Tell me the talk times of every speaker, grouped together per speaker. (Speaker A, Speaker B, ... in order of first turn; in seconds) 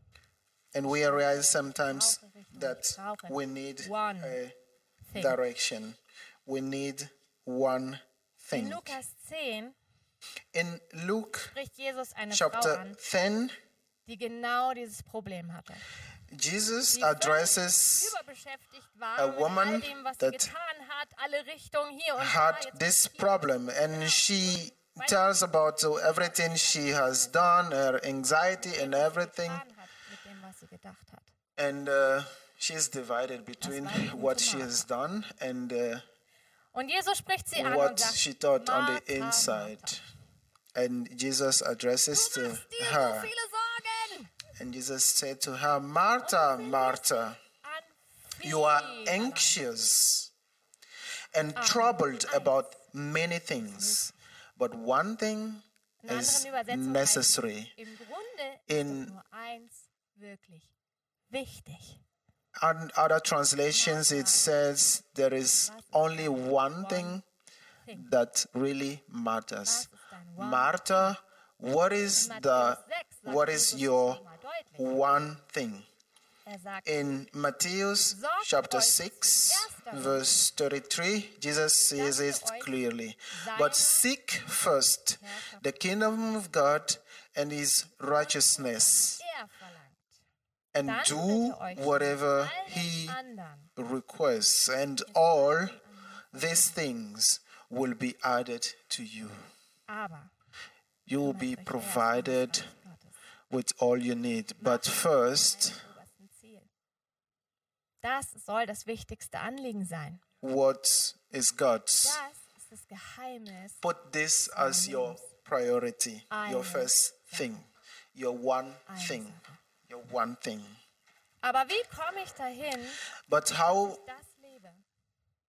Speaker A: 0.7-4.5, 5.1-9.0, 10.5-11.5, 12.3-13.5, 16.3-18.1, 19.2-20.5, 22.2-29.6, 31.6-36.0, 37.5-40.0, 40.7-43.3, 44.5-47.4, 48.4-50.3, 51.3-57.7, 58.7-59.1, 62.6-67.2, 67.9-74.2, 74.8-75.8, 76.8-89.2, 90.7-93.2, 93.8-95.8, 96.3-99.5, 101.0-102.7, 103.5-105.8, 110.4-112.2, 113.8-120.8, 123.3-124.0
Speaker B: 0.9-4.4, 5.1-5.4, 8.5-9.8, 11.4-13.0, 14.1-15.8, 16.9-25.3, 25.9-27.6, 28.6-31.3, 33.6-34.9, 36.7-40.0, 42.1-44.3, 46.2-49.6, 51.5-52.8, 53.6-54.1, 56.0-60.7, 61.3-62.0, 63.7-64.5, 65.6-67.2, 69.6-71.2, 72.1-74.9, 76.5-77.0, 78.1-80.4, 81.9-82.7, 83.3-84.1, 85.2-85.7, 88.1-90.2, 90.8-93.7, 95.1-96.8, 99.9-100.3, 101.2-103.2, 104.6-106.7, 108.0-110.2, 112.0-113.8, 114.5-115.3, 116.3-117.6, 118.9-119.6, 121.4-123.0, 123.8-124.8